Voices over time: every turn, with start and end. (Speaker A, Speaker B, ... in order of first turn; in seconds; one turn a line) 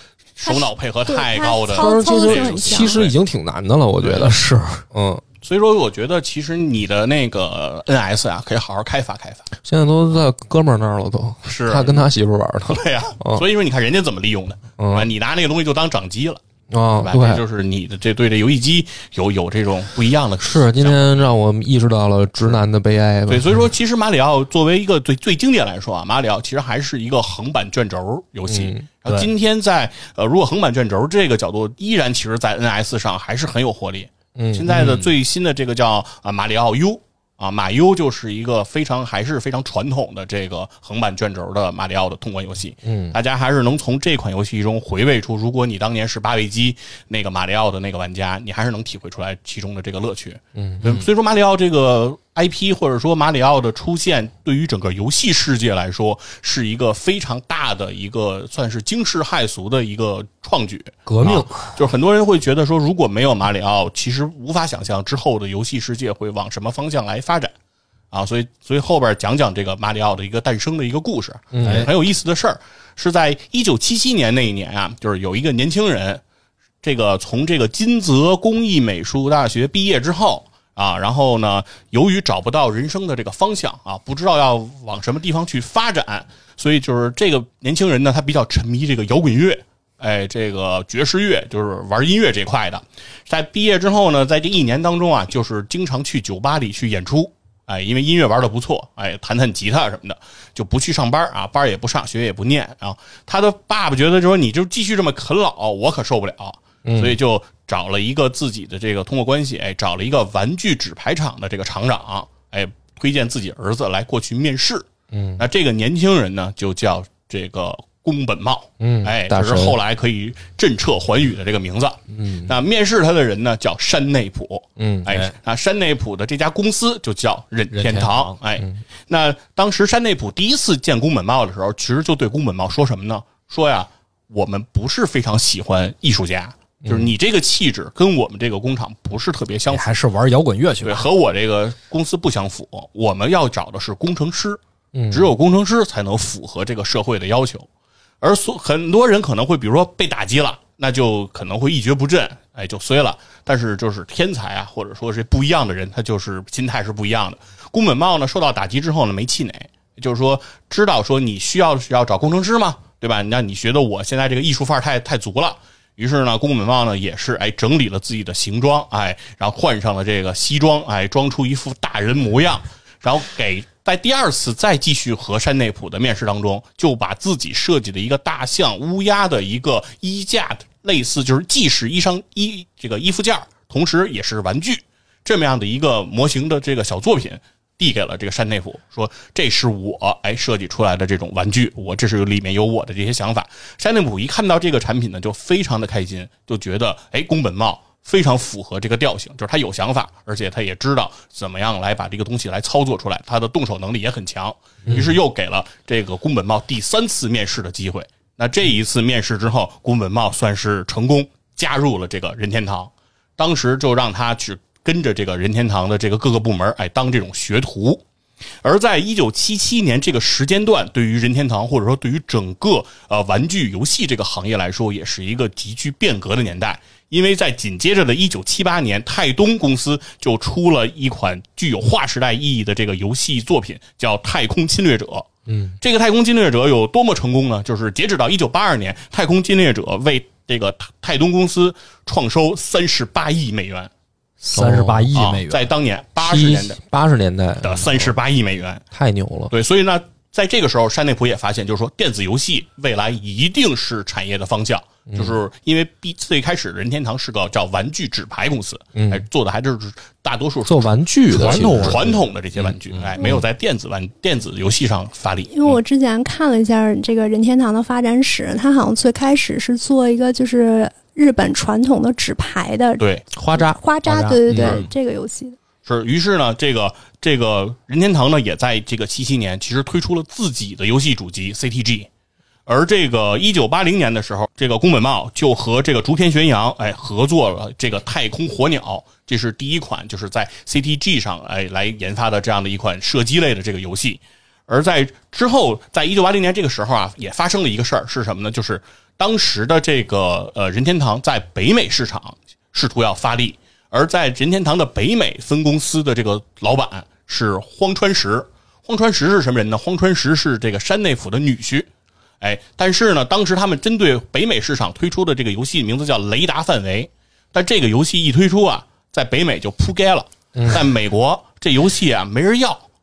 Speaker A: 0.4-3.1
Speaker B: 0.4-3.0
Speaker C: 1.8-4.4
Speaker A: 4.0-4.3
Speaker D: 4.2-4.8
Speaker C: 4.9-5.2
Speaker A: 5.4-9.5
Speaker C: 9.6-13.4
Speaker A: 11.4-12.1
Speaker A: 12.7-16.4
Speaker C: 14.8-15.1
Speaker C: 16.7-17.4
Speaker A: 17.0-21.2
Speaker C: 20.4-23.6
Speaker A: 23.3-67.5
Speaker C: 28.5-28.9
Speaker C: 34.4-34.9
Speaker D: 34.7-35.1
Speaker C: 42.9-43.2
Speaker C: 50.5-50.9
Speaker D: 61.1-61.7
Speaker A: 68.1-76.2
Speaker C: 71.5-71.9
Speaker D: 71.6-71.9
Speaker A: 76.8-114.8
Speaker C: 106.8-107.2
Speaker C: 115.1-115.4
Speaker A: 115.4-139.9
Speaker C: 118.8-119.8
Speaker C: 122.1-122.5
Speaker C: 124.8-125.1
Speaker D: 127.7-128.3
Speaker C: 136.8-137.1
Speaker D: 139.7-141.1
Speaker A: 140.8-144.6
Speaker C: 144.9-145.3
Speaker A: 145.1-147.7
Speaker A: 148.2-218.0
Speaker A: 218.6-235.3
Speaker C: 235.5-235.8
Speaker A: 235.8-243.9
Speaker D: 244.4-245.7
Speaker C: 244.5-245.2
Speaker A: 245.1-246.8
Speaker C: 246.2-248.2
Speaker A: 247.6-248.8
Speaker C: 248.9-249.5
Speaker A: 249.5-265.8
Speaker C: 255.1-255.3
Speaker C: 259.0-259.2
Speaker C: 260.7-262.1
Speaker D: 261.3-263.3
Speaker B: 265.5-275.6
Speaker A: 273.0-273.2
Speaker D: 274.1-274.8
Speaker C: 274.5-274.8
Speaker A: 274.5-274.8
Speaker A: 275.9-282.1
Speaker A: 282.7-311.9
Speaker A: 312.4-322.9
Speaker C: 320.6-320.8